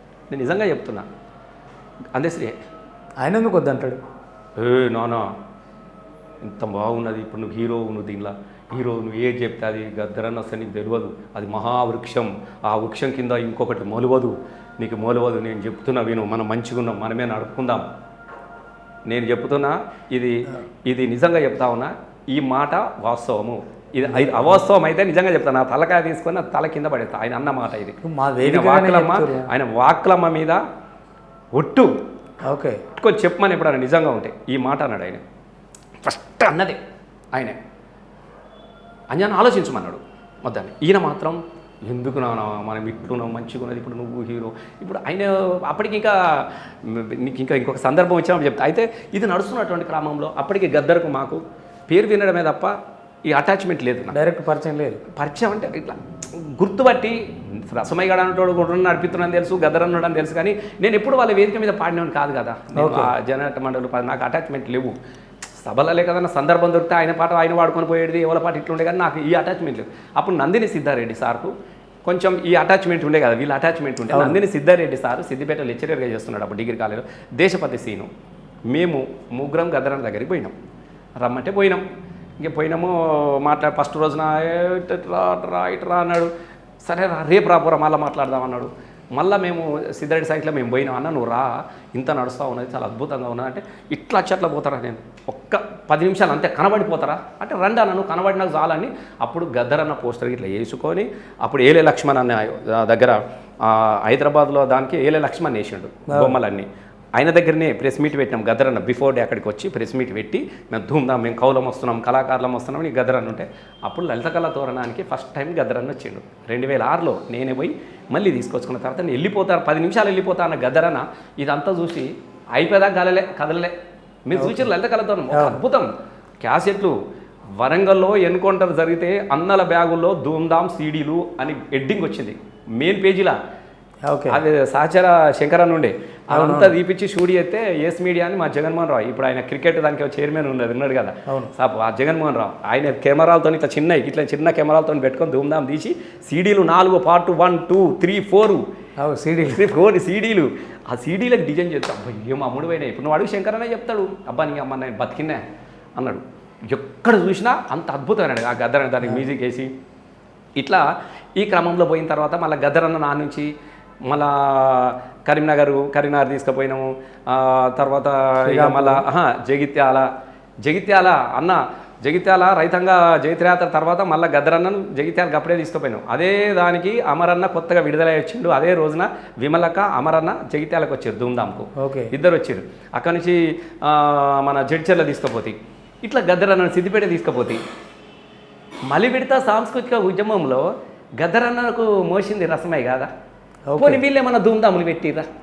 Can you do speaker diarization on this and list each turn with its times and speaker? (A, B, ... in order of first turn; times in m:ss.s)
0:00.3-0:01.1 A
0:02.1-0:02.6 A
0:03.2-0:04.0 B
0:04.6-0:05.3 A
0:06.4-0:17.9 A
0:19.1-0:30.6 A
0:24.1-0:24.6 B
0:28.0-0:29.5 B
0:31.6-0:31.9 A
0:32.4-0:32.8 B
0:32.9-0:35.2 A
0:36.0-0:36.8 A
0:39.1-0:52.8 A
0:53.3-0:54.2 A
0:54.1-0:55.0 B
0:55.1-1:05.0 A
1:02.8-1:03.1 B
1:05.6-1:11.5 A
1:12.0-1:18.1 A
1:14.1-1:14.4 B
1:18.7-1:20.6 A
1:21.2-1:21.8 A
1:22.4-1:26.3 A
1:26.8-2:03.7 A
1:46.1-1:46.4 B
2:04.3-2:05.9 A
2:04.4-2:04.7 B
2:05.3-2:05.6 B
2:06.4-2:07.0 A
2:07.6-2:13.4 A
2:14.1-2:14.4 B
2:14.3-2:28.6 A
2:16.3-2:16.7 B
2:29.0-2:29.6 B
2:29.4-2:35.4 A
2:36.0-2:39.7 A
2:40.6-2:40.8 A
2:41.4-2:43.5 A
2:44.1-2:50.1 A
2:48.4-2:49.0 B
2:50.6-3:07.6 A
3:01.8-3:02.1 B
3:08.9-3:13.1 A
3:13.7-3:14.0 B
3:13.8-3:15.3 A